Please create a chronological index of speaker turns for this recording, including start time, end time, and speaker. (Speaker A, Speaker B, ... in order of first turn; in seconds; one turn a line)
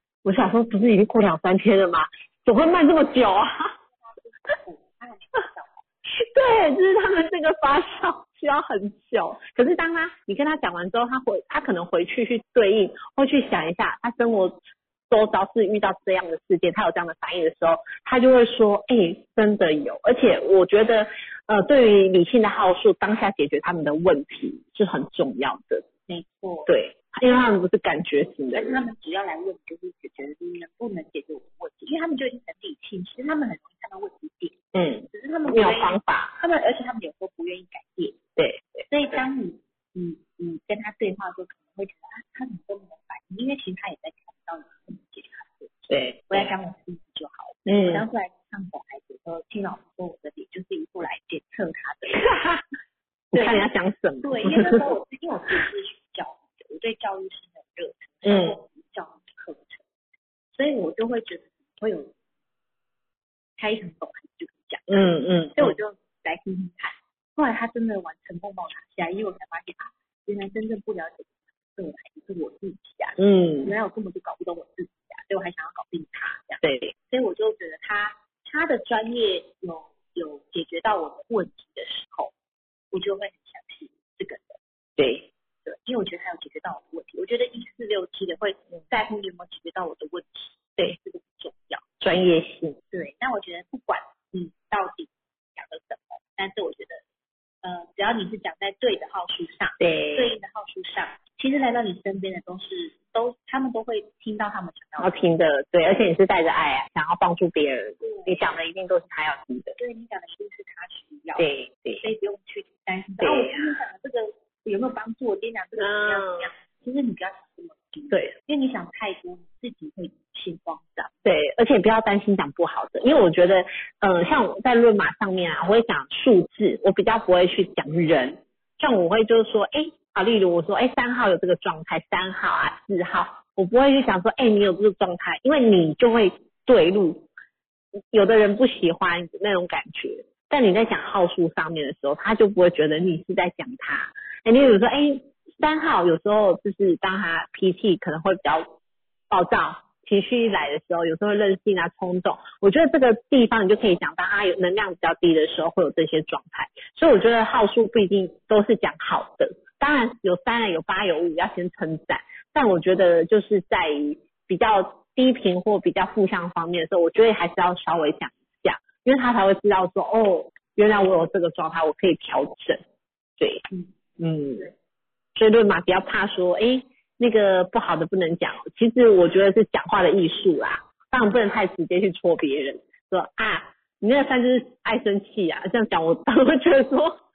Speaker A: 0.2-3.7
Speaker B: 3.9-5.8
Speaker A: 6.2-14.6
Speaker A: 15.1-25.9
Speaker B: 26.1-26.7
Speaker A: 26.7-28.8
Speaker B: 28.5-34.6
Speaker A: 34.7-36.4
Speaker B: 35.1-38.2
Speaker A: 38.4-38.9
Speaker B: 38.9-45.7
Speaker A: 45.9-46.5
Speaker B: 46.3-52.3
Speaker A: 47.7-48.0
Speaker A: 52.2-52.6
Speaker B: 53.3-53.6
Speaker A: 53.3-54.9
Speaker B: 54.2-59.8
Speaker A: 58.2-58.6
Speaker B: 60.5-62.1
Speaker B: 63.6-82.3
Speaker A: 64.9-65.8
Speaker A: 73.2-73.7
Speaker A: 76.6-76.9
Speaker B: 82.9-84.6
Speaker A: 85.0-85.2
Speaker B: 85.6-91.9
Speaker A: 92.0-92.8
Speaker B: 92.9-97.0
Speaker B: 97.6-105.2
Speaker A: 99.8-100.3
Speaker A: 105.0-109.8
Speaker B: 108.0-108.5
Speaker B: 109.8-111.5
Speaker A: 111.4-112.1
Speaker B: 112.0-121.1
Speaker A: 113.2-113.7
Speaker A: 115.8-116.5
Speaker A: 118.1-118.3
Speaker A: 121.2-137.2
Speaker A: 138.1-148.7
Speaker A: 149.3-172.8
Speaker A: 173.4-173.7
Speaker A: 174.2-174.7
Speaker A: 175.3-187.2